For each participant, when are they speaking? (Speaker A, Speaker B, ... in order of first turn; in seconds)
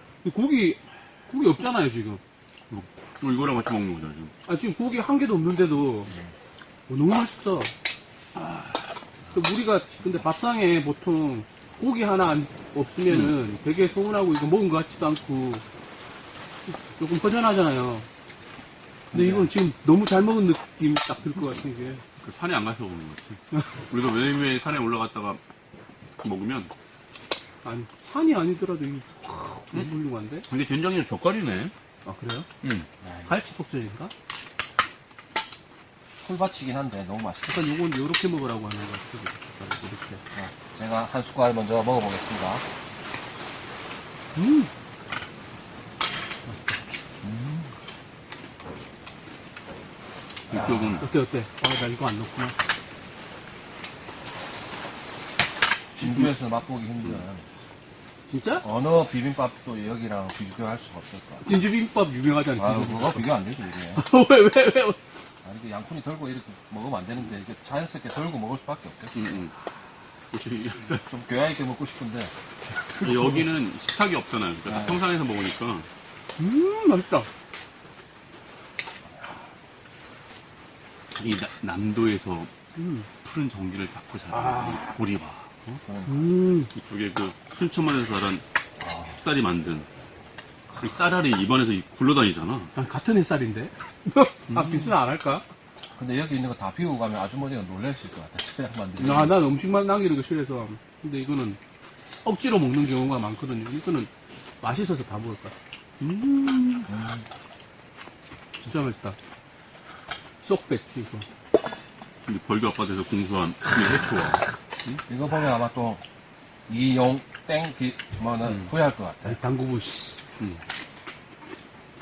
Speaker A: 0.2-2.2, 4.4-6.1, 6.9-7.7, 9.3-15.6, 16.7-18.1, 19.1-22.0, 27.6-30.5, 32.0-32.5, 33.3-34.1, 37.4-40.2, 44.3-44.7, 46.4-46.8, 51.0-52.6, 58.3-58.6, 61.4-63.3, 63.9-65.0, 76.4-77.3, 82.7-83.1, 84.3-84.9, 86.0-86.7, 92.7-95.5, 99.0-101.6, 102.1-106.9, 108.6-109.2, 110.4-111.2, 119.2-120.2
Speaker B: 2.7-4.3, 8.4-8.7, 13.1-13.3, 22.2-25.4, 26.2-26.7, 30.5-31.7, 32.6-32.9, 50.5-51.0, 56.0-56.3, 69.1-69.5, 70.3-71.0, 73.0-75.9, 81.2-82.5, 83.2-85.8, 86.7-88.4, 89.1-89.9, 90.8-92.7, 94.5-94.9, 112.2-115.0, 118.4-118.7
Speaker C: 19.1-19.5, 33.0-33.3, 36.2-37.7, 40.3-42.6, 47.2-47.7, 50.5-51.0, 56.0-57.5, 58.6-61.5, 62.5-64.0, 65.4-69.5, 70.9-73.4, 74.7-75.0, 79.1-79.4, 85.8-86.3, 88.8-89.2, 96.0-99.4, 106.9-107.2, 115.1-116.0, 116.7-119.4